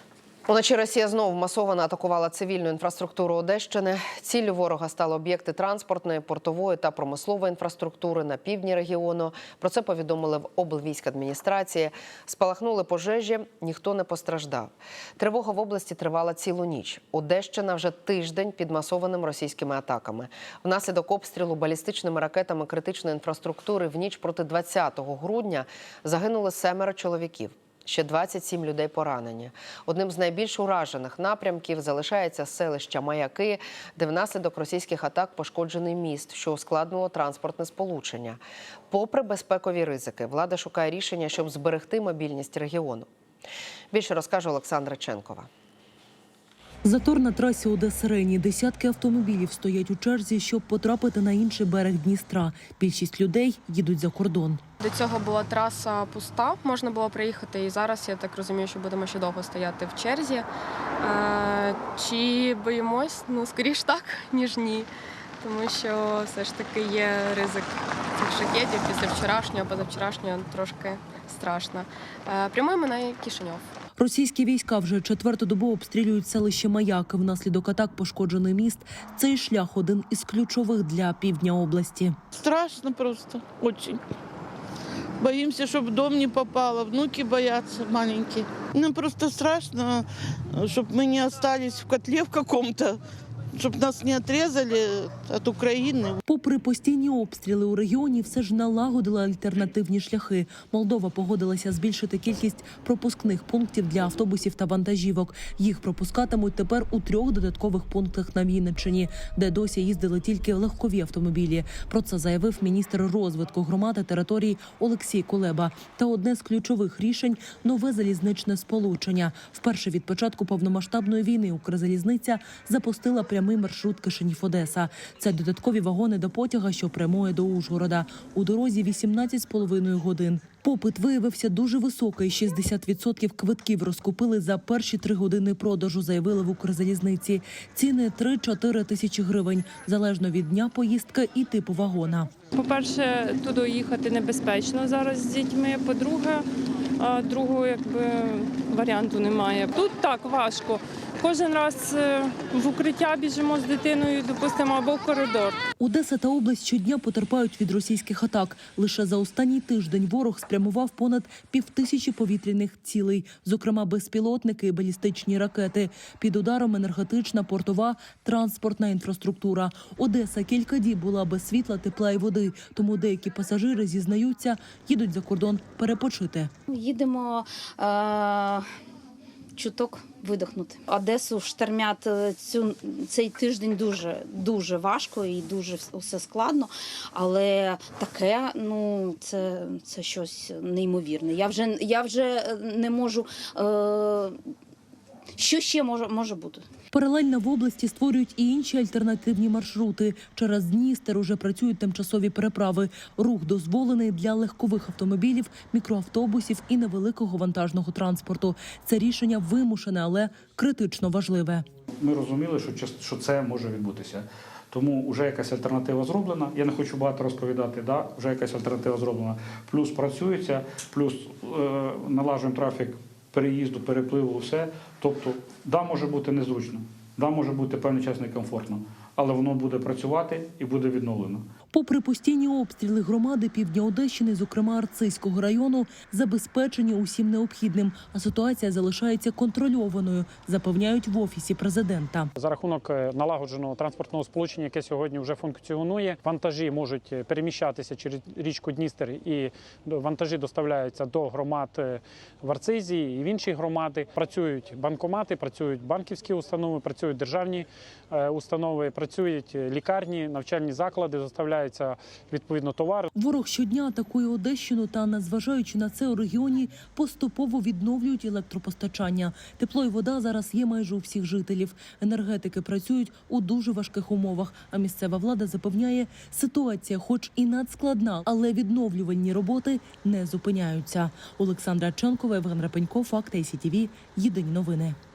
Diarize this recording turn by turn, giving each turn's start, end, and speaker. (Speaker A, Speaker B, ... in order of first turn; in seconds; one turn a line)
Speaker A: 0.5-43.1
Speaker A: 43.9-45.5
Speaker B: 46.8-54.6
Speaker C: 54.8-60.5
Speaker C: 61.0-73.7
Speaker B: 74.0-82.2
Speaker D: 82.3-84.0
Speaker D: 85.2-90.0
Speaker D: 90.5-93.0
Speaker D: 93.5-96.2
Speaker B: 96.3-142.3
Speaker E: 142.5-146.4
Speaker E: 147.0-155.6
Speaker B: 155.8-176.5
Speaker F: 176.7-178.7
Speaker F: 179.6-194.4
Speaker F: 195.4-196.6
Speaker B: 196.9-211.6
Speaker G: 212.0-231.4
Speaker B: 231.7-242.3
Speaker H: 242.3-263.1
Speaker B: 263.1-285.0